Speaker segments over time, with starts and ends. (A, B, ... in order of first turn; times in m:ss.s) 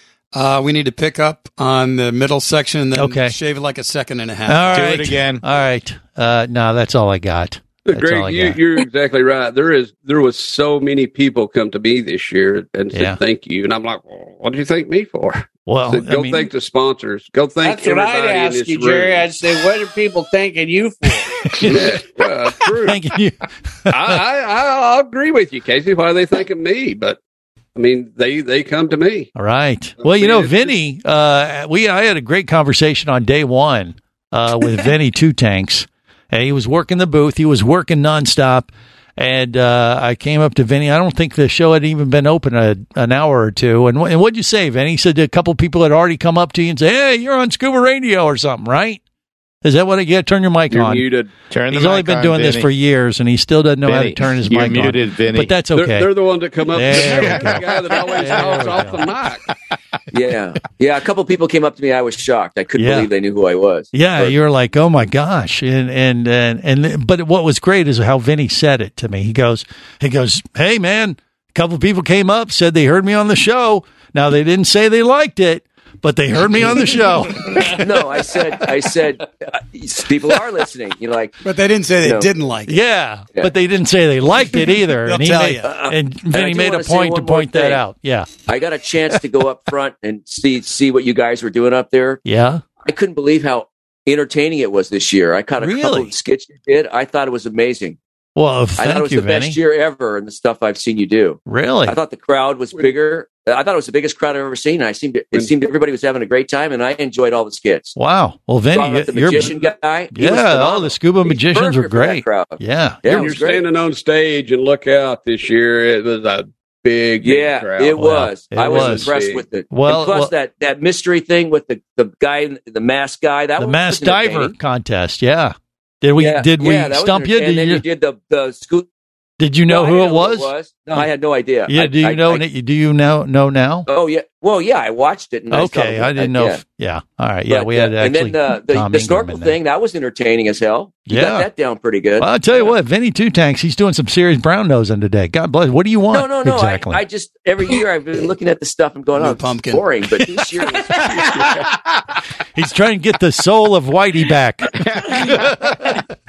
0:00.3-0:04.8 A
0:03.0-0:03.4 B
0:04.5-0:08.6 B
0:04.7-0:05.4 C
0:07.8-0:19.3 D
0:12.9-0:13.2 B
0:15.7-0:16.5 B
0:17.6-0:21.5 E
0:21.5-0:22.0 B
0:21.5-0:23.0 D
0:22.8-0:24.2 B
0:23.9-0:27.2 D
0:27.8-0:29.3 D
0:29.4-0:49.0 B
0:30.0-0:30.8 D
0:49.6-0:51.1 B
0:50.7-0:51.3 D
0:51.5-0:52.7 C
0:51.7-0:56.1 B
0:53.8-0:55.6 C
0:55.7-0:59.4 D
0:56.7-0:59.1 B
0:57.0-0:57.5 C
1:00.1-1:04.4 F
1:02.8-1:03.1 B
1:03.9-1:17.8 B
1:17.6-1:21.4 F
1:21.4-1:22.8 A
1:22.0-1:22.3 F
1:22.7-1:28.3 B
1:24.5-1:25.7 A
1:25.6-1:27.9 F
1:28.5-1:32.2 F
1:32.2-1:32.6 B
1:32.8-1:38.0 F
1:35.6-1:36.1 B
1:38.4-1:39.6 B
1:38.8-1:48.0 F
1:41.5-1:42.0 B
1:42.7-1:43.0 D
1:45.3-1:45.7 D
1:48.0-1:49.6 B
1:48.7-1:53.7 F
1:50.1-1:53.4 B
1:53.1-1:59.5 D
1:57.2-2:04.5 F
1:58.0-1:59.1 B
1:59.7-2:00.3 B
2:03.6-2:07.8 B
2:06.2-2:08.9 F
2:09.4-2:11.0 B
2:09.7-2:12.4 F
2:11.7-2:13.9 B
2:13.9-2:16.6 F
2:15.5-2:19.5 B
2:17.5-2:22.4 F
2:21.1-2:21.5 B
2:22.2-2:27.0 B
2:26.1-2:31.7 F
2:29.2-2:29.9 A
2:32.6-2:36.0 B
2:34.8-2:35.2 C